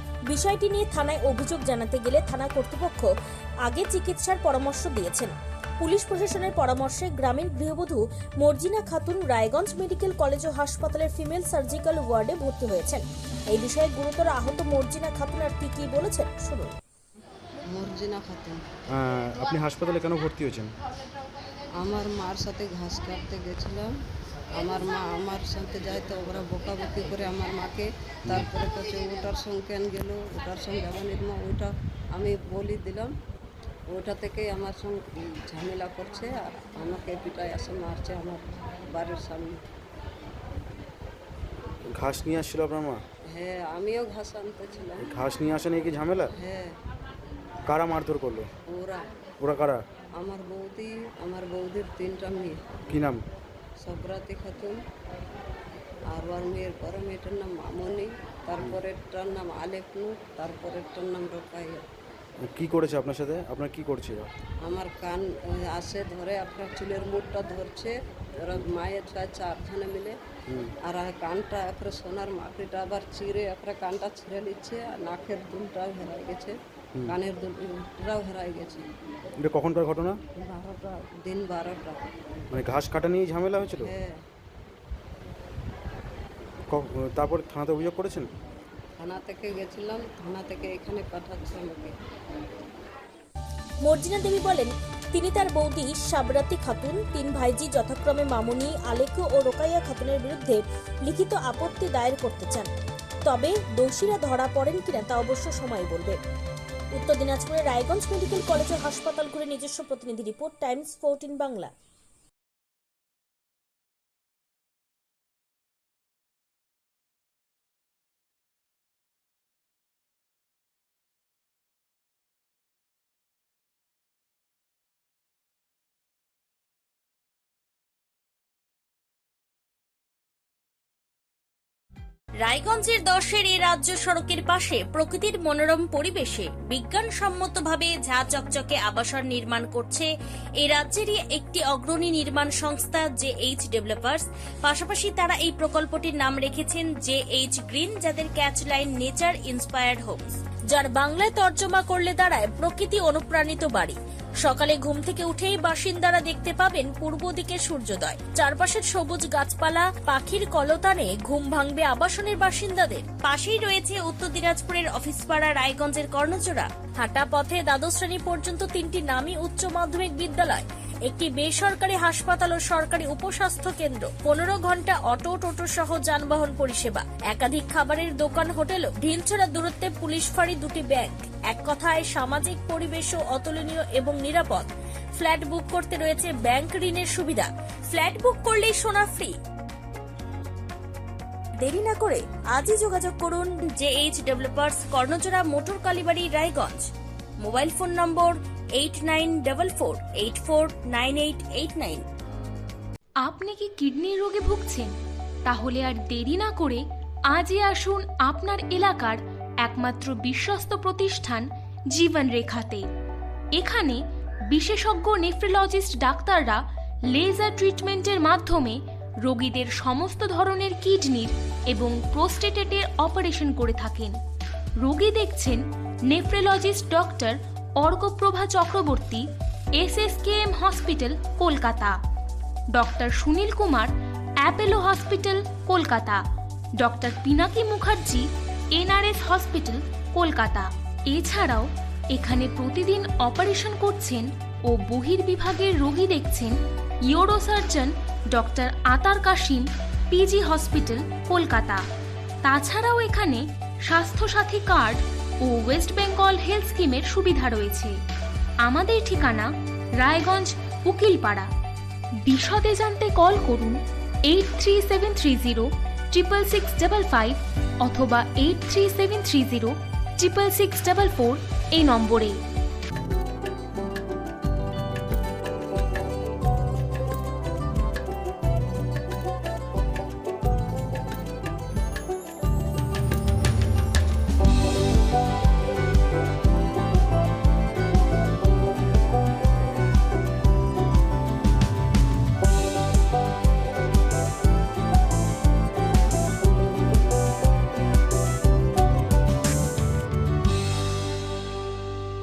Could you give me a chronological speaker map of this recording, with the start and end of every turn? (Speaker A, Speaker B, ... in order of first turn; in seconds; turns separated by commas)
Speaker A: 0.3-3.1, Speaker A: 3.7-16.7, Speaker B: 17.7-18.6, Speaker C: 18.9-20.7, Speaker B: 21.8-23.9, Speaker B: 24.6-33.1, Speaker B: 33.9-39.6, Speaker C: 41.9-43.0, Speaker B: 43.3-45.1, Speaker C: 45.0-46.3, Speaker B: 46.4-46.7, Speaker C: 47.7-48.5, Speaker B: 48.7-49.1, Speaker C: 49.4-49.8, Speaker B: 50.2-52.6, Speaker C: 52.9-53.2, Speaker B: 53.8-54.8, Speaker B: 56.1-61.8, Speaker C: 62.4-64.3, Speaker B: 64.6-70.2, Speaker B: 70.8-76.6, Speaker B: 77.1-78.8, Speaker C: 79.4-80.2, Speaker B: 80.4-82.0, Speaker C: 82.5-83.9, Speaker B: 83.8-84.2, Speaker C: 86.7-88.3, Speaker B: 89.0-91.9, Speaker A: 93.8-102.7, Speaker A: 103.2-106.2, Speaker A: 107.0-111.7, Speaker A: 132.4-140.1, Speaker A: 140.6-189.4, Speaker A: 191.6-196.9, Speaker A: 197.4-202.1, Speaker D: 203.2-204.9, Speaker D: 205.4-212.9, Speaker D: 213.6-224.2, Speaker D: 224.8-229.3, Speaker D: 229.8-232.0, Speaker D: 232.7-236.2, Speaker D: 236.8-251.8, Speaker D: 252.4-257.9, Speaker D: 258.6-261.5, Speaker D: 262.2-272.4